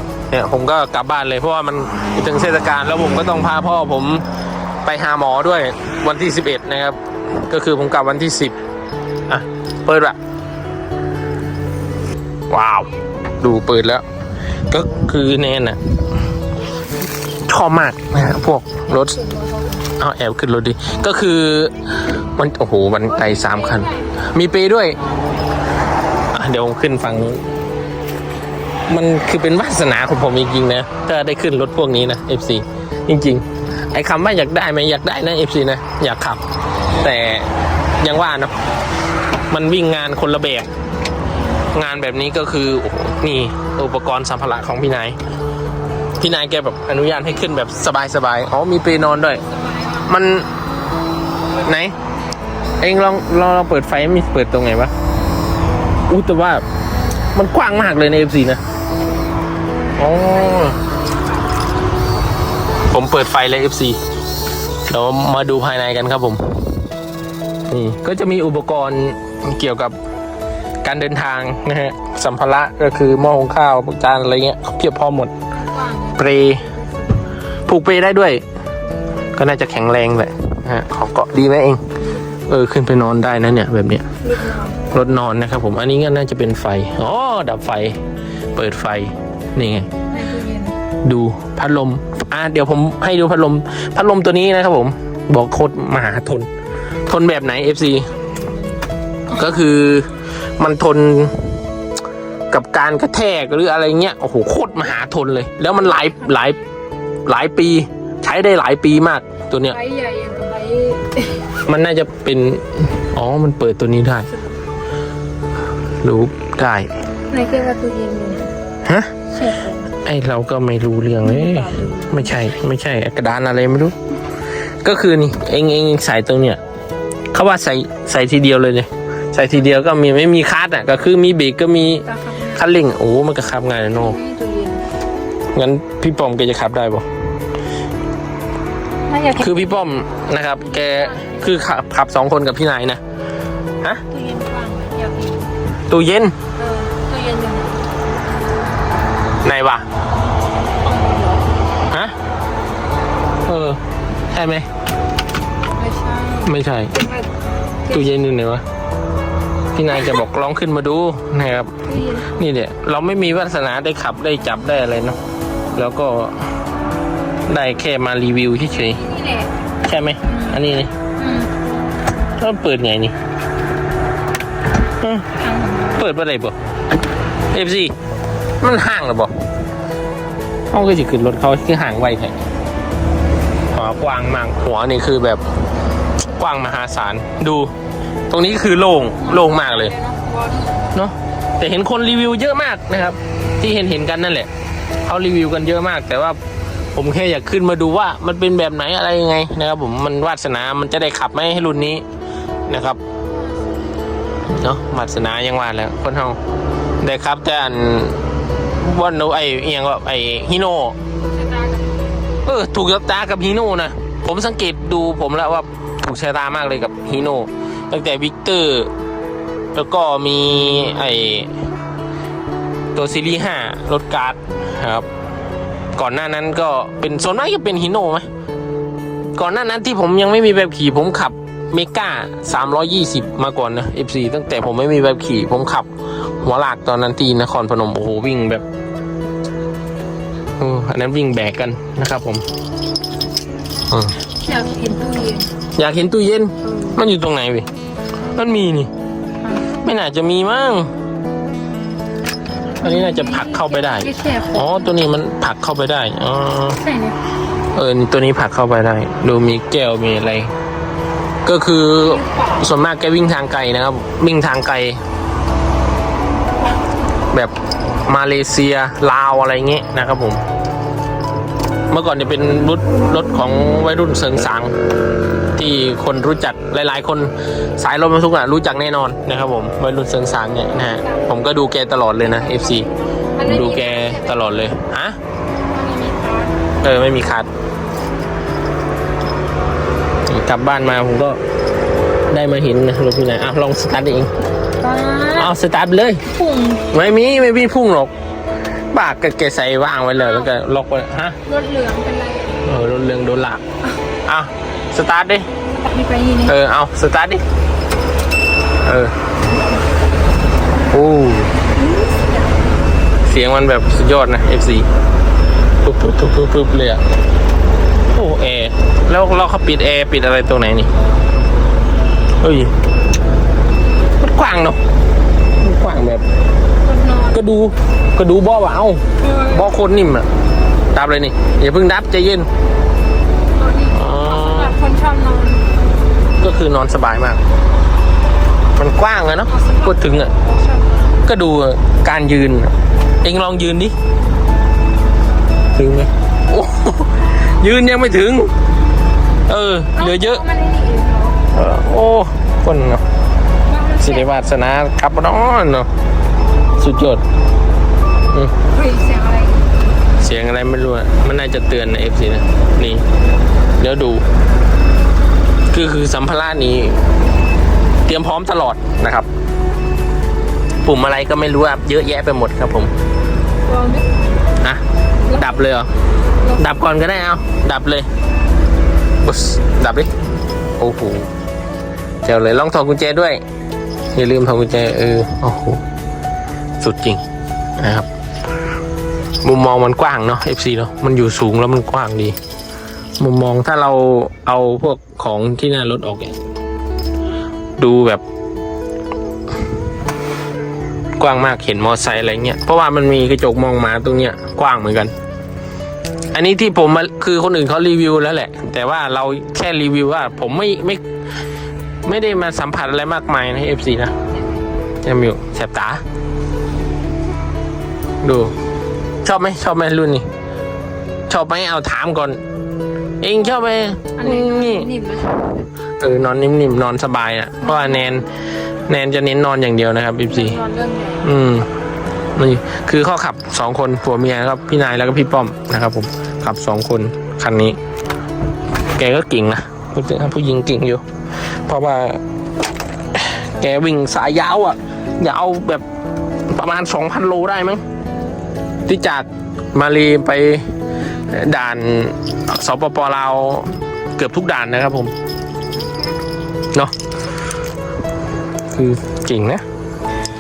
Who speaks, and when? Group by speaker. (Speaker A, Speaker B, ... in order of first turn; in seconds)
Speaker A: 0.3-4.2, 4.8-8.6, 9.3-10.2, 12.5-14.0, 14.7-15.8, 17.5-19.2, 19.9-21.8, 22.4-25.0, 26.3-27.4, 28.9-36.4, 37.0-38.5, 39.5-40.7, 41.7-45.2, 46.2-50.5, 51.6-52.0, 52.8-54.9, 56.1-56.6, 57.4-58.6, 60.0-60.8, 62.9-64.0, 64.9-66.5, 67.7-70.0, 70.8-75.3, 76.2-76.7, 77.7-78.4, 79.3-81.8, 82.5-84.1, 84.9-88.0, 88.5-89.9, 91.0-96.5, 97.1-98.2, 99.3-101.6, 102.5-106.6, 107.3-109.8, 111.6-114.3, 116.0-116.9, 118.8-119.1, 119.9-124.0, 124.8-126.6, 127.3-134.2, 135.5-137.1, 139.4-143.0, 145.9-146.3, 149.4-149.9, 151.9-152.2, 153.5-154.7, 156.4-156.9, 157.9-158.6, 159.7-165.2, 165.8-166.5, 167.5-169.0, 169.8-170.9, 172.4-173.2, 175.0-175.3, 175.9-176.6, 177.5-177.9, 178.6-179.3, 180.7-182.4, 183.7-185.4, 186.3-187.7, 188.3-189.9, 190.9-194.5, 195.1-196.4, 196.9-202.0, 202.7-203.0, 204.5-206.4, 207.0-208.2, 208.7-211.0, 212.4-218.9, 219.7-221.6, 222.9-225.1, 226.0-228.3, 229.4-235.9, 236.4-238.7, 240.6-242.4, 243.9-244.2, 245.8-247.7, 248.3-248.9, 249.8-250.9, 252.8-256.8, 257.7-260.5, 261.4-265.0, 267.3-270.4, 271.9-274.7, 275.6-282.9, 283.4-285.2, 286.8-287.5, 290.3-291.4, 292.3-294.3, 295.3-296.2, 296.9-298.1, 298.9-301.4, 302.6-303.6, 304.3-305.5, 306.4-307.4, 308.8-309.1, 310.9-311.5, 313.3-314.9, 315.8-317.0, 318.1-320.9, 322.4-322.7, 324.2-324.8, 325.6-326.2, 327.3-330.3, 330.9-332.5, 333.9-334.8, 336.4-337.4, 338.8-340.3, 341.2-343.9, 345.8-348.5, 349.5-350.4, 351.5-353.0, 354.0-355.9, 356.8-357.2, 360.2-363.1, 363.8-364.3, 365.7-367.0, 368.1-369.3, 370.8-372.9, 375.3-375.9, 376.6-378.1, 379.2-380.1, 380.8-381.3, 382.2-383.4, 384.1-385.8, 386.8-387.2, 387.8-388.1, 389.4-392.4, 393.2-396.5, 397.8-398.2, 401.2-405.1, 406.3-411.0, 412.1-414.1, 415.1-416.0, 418.2-418.5, 419.2-420.3, 421.3-422.4, 423.2-424.9, 426.0-428.3, 428.9-430.6, 431.2-431.7, 432.4-437.8, 438.9-442.2, 443.1-445.9, 446.5-447.8, 448.9-450.7, 451.3-455.1, 458.7-459.6
Speaker B: 19.1-19.8, 23.1-24.2, 25.0-25.4, 49.5-50.1, 60.2-60.9, 75.5-76.9, 84.2-84.8, 90.1-90.8, 98.2-98.8, 105.8-106.6, 109.7-111.5, 117.3-118.5, 119.3-119.9, 121.2-122.3, 132.1-132.6, 134.0-134.9, 139.1-139.9, 140.6-141.5, 144.1-145.5, 146.6-147.9, 150.8-151.6, 155.8-157.3, 161.9-162.4, 168.7-169.5, 170.2-170.6, 171.2-171.5, 175.4-176.0, 189.2-190.9, 211.2-212.2, 244.4-245.5, 246.6-247.0, 249.4-249.7, 252.8-255.0, 256.8-257.2, 262.0-262.7, 280.8-281.4, 282.2-284.7, 285.7-286.7, 294.8-295.5, 296.2-296.9, 300.1-300.5, 301.4-302.6, 305.7-306.6, 311.8-312.5, 326.8-327.4, 329.2-329.7, 333.5-335.8, 339.5-341.2, 349.9-351.4, 353.6-354.3, 358.7-359.6, 373.6-374.2, 375.3-375.6, 424.2-425.7, 427.6-428.2, 430.3-431.2